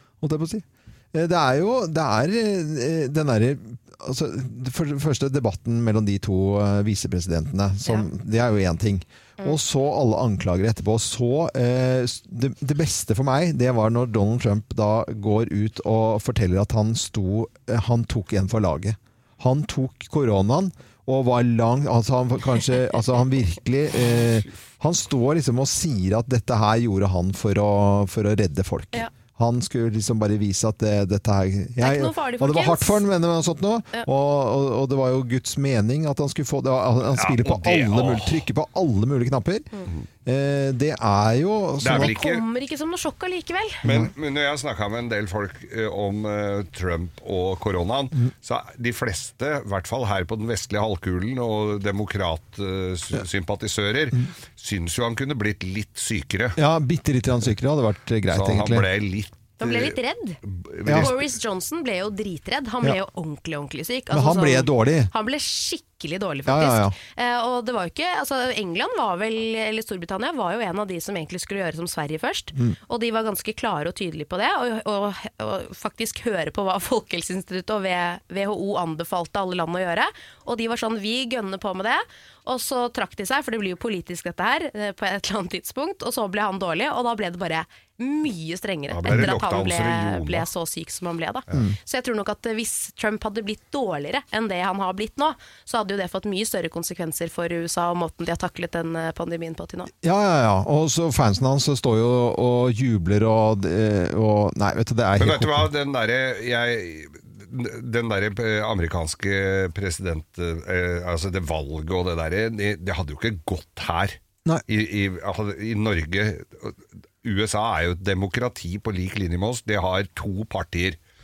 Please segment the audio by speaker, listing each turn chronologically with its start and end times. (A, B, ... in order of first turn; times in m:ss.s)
0:00.2-0:39.7 A
0:31.8-0:33.0 B
0:37.2-0:38.5 C
0:40.3-0:42.1 A
0:41.8-0:42.4 C
0:41.9-0:43.8 B
0:43.8-0:56.6 C
0:56.6-0:58.9 A
0:58.3-1:01.3 C
0:59.6-1:00.4 B
1:00.9-1:39.9 B
1:04.1-1:05.1 A
1:06.5-1:07.0 A
1:28.9-1:30.5 C
1:40.0-1:45.7 A
1:45.2-2:01.0 C